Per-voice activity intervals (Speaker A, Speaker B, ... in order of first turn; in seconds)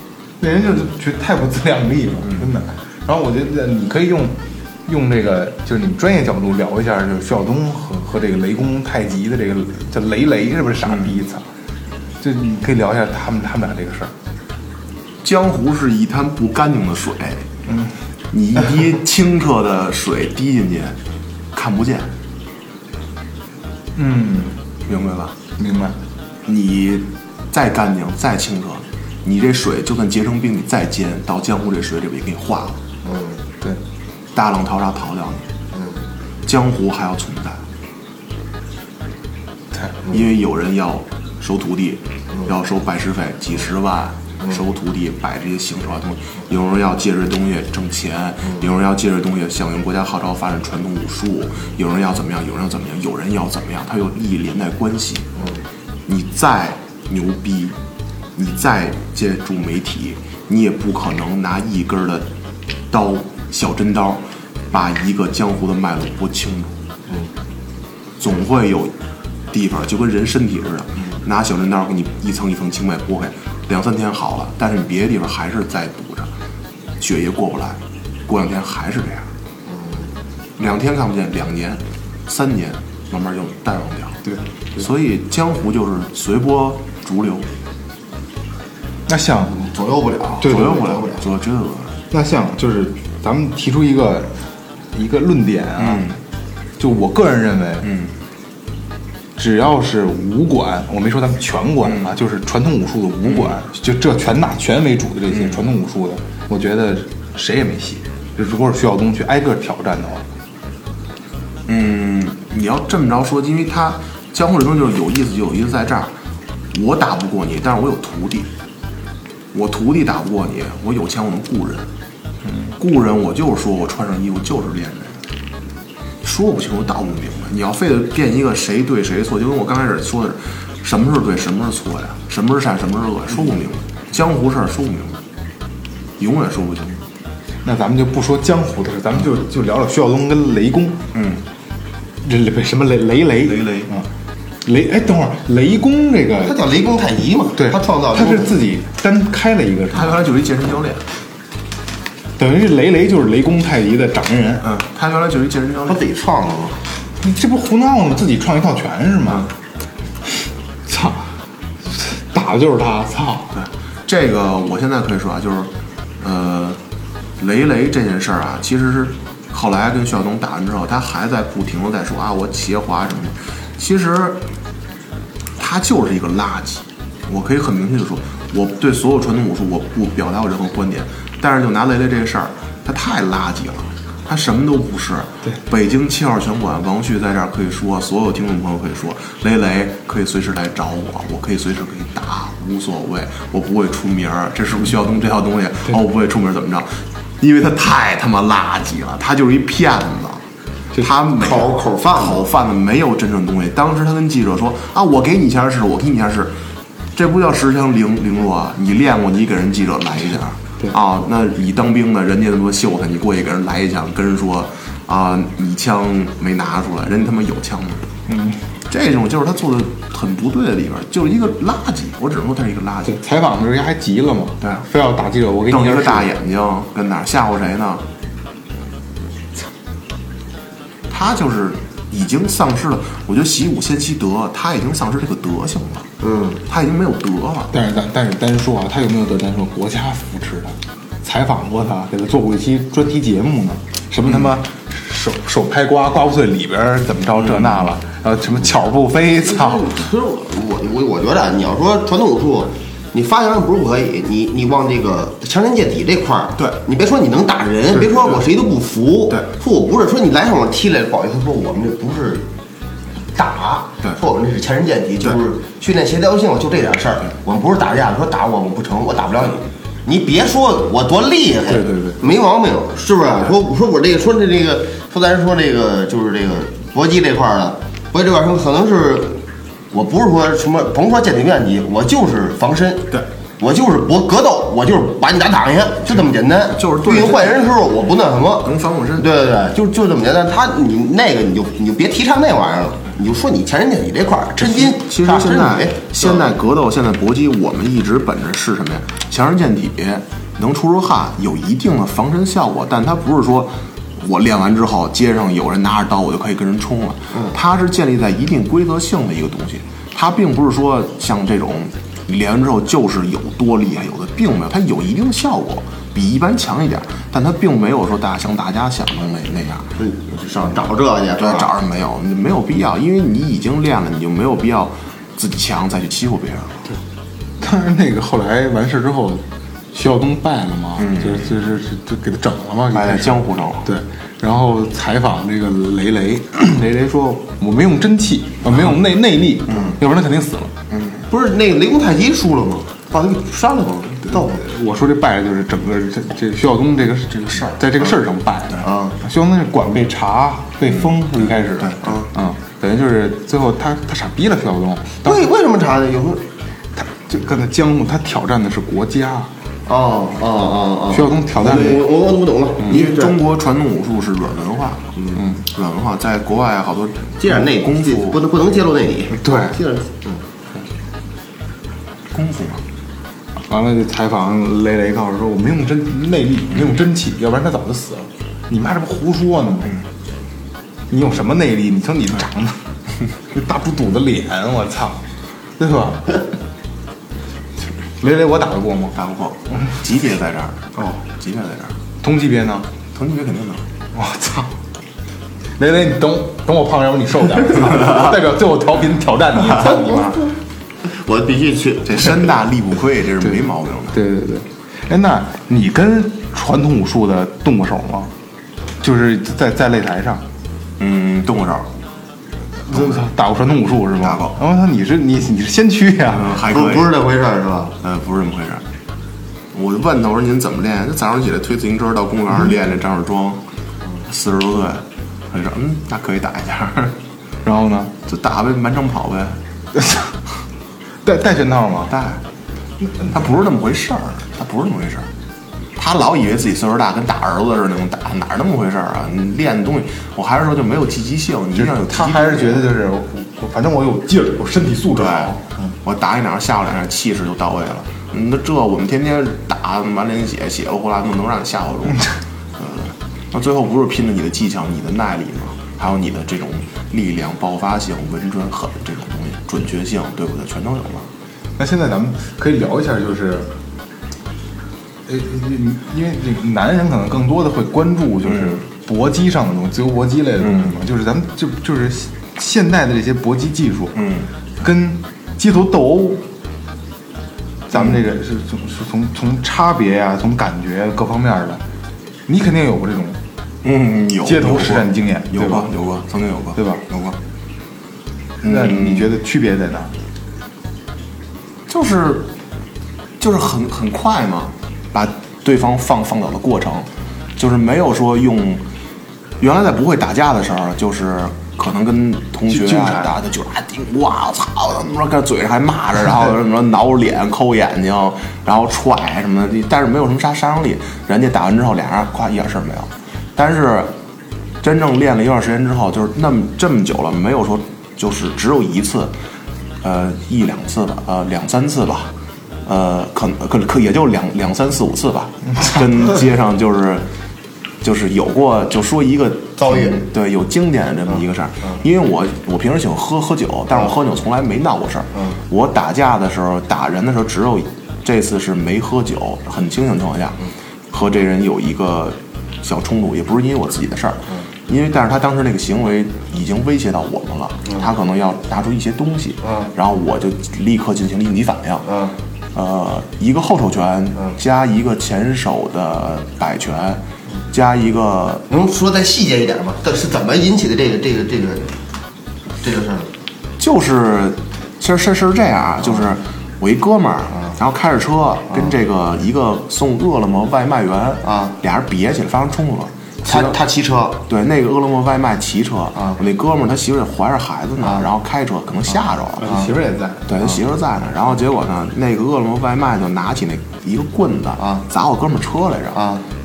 Speaker A: 0.4-11.4, 12.2-14.1, 17.7-17.9, 23.9-24.6, 25.6-25.9, 89.1-89.5, 90.4-90.8, 92.1-94.4, 94.9-96.0, 96.8-97.9, 99.4-110.2, 137.6-141.0, 142.2-144.1, 144.6-146.6, 147.6-150.2, 152.4-154.7, 157.2-159.5, 160.9-161.3, 161.8-163.5, 218.3-218.6, 223.0-226.3, 237.7-249.9, 271.7-272.2, 327.6-340.7, 344.3-355.4, 356.9-359.5, 361.1-362.0, 369.3-369.8, 373.7-380.0, 381.1-382.8, 383.5-385.2, 385.8-386.4, 388.2-389.2, 392.2-392.9, 394.1-394.7, 395.8-400.5, 403.4-408.3, 409.0-410.4, 412.8-416.6, 427.6-428.1, 430.0-430.3, 431.2-432.1, 441.7-445.9, 461.8-463.7, 465.3-474.2, 474.8-476.4, 477.9-481.8, 482.5-483.4, 484.4-485.9, 486.7-487.0, 488.6-490.1, 502.7-503.3, 579.6-580.5
Speaker B: 15.2-17.4, 18.3-21.0, 21.5-22.1, 24.9-25.3, 26.4-32.8, 34.3-35.5, 36.4-37.6, 40.1-55.3, 56.1-57.8, 58.4-62.3, 62.9-66.7, 68.2-68.9, 69.5-76.3, 77.0-79.3, 80.6-84.2, 84.8-87.5, 90.4-91.9, 95.8-96.2, 97.8-98.1, 103.3-103.5, 111.7-116.1, 116.7-118.5, 119.5-121.9, 122.8-125.2, 126.2-135.2, 136.2-137.0, 141.1-141.4, 143.4-143.9, 149.9-151.0, 154.6-156.1, 163.5-166.8, 167.4-174.4, 175.6-200.4, 200.9-206.5, 207.1-218.1, 218.9-223.2, 225.7-228.0, 231.1-236.1, 236.7-237.7, 247.5-247.8, 286.7-287.8, 288.6-289.3, 294.6-319.9, 321.4-326.8, 331.0-331.5, 332.9-333.9, 339.7-339.9, 340.9-341.2, 351.8-352.1, 361.6-362.0, 362.8-368.4, 372.3-372.8, 389.1-391.9, 393.1-393.8, 402.0-404.2, 411.0-411.9, 412.9-413.2, 414.2-414.6, 416.3-417.2, 418.0-418.8, 419.7-423.6, 424.2-427.2, 428.2-429.6, 432.1-432.4, 433.3-435.3, 435.9-442.9, 445.1-461.3, 468.5-468.8, 470.6-470.9, 474.1-474.5, 483.8-487.4, 488.6-489.3, 491.9-492.5, 493.4-498.8, 499.6-514.1, 514.8-519.3, 520.0-522.3, 522.8-527.2, 528.0-552.0, 552.7-558.7, 563.8-573.7, 574.5-579.7, 580.5-586.2
Speaker C: 33.0-33.4, 35.7-36.0, 55.4-55.6, 79.7-80.1, 89.5-91.2, 146.4-148.6, 155.9-156.8, 201.3-202.5, 236.2-236.6, 249.4-262.4, 263.3-296.5, 320.0-321.7, 341.3-344.6, 348.8-349.2, 355.2-356.4, 359.9-363.4, 367.4-370.4, 399.8-400.5, 401.0-402.6, 416.5-417.9, 529.8-530.2, 549.6-549.9, 552.0-552.4, 558.7-561.9, 562.8-563.3, 571.4-571.7, 573.4-574.4, 586.1-586.4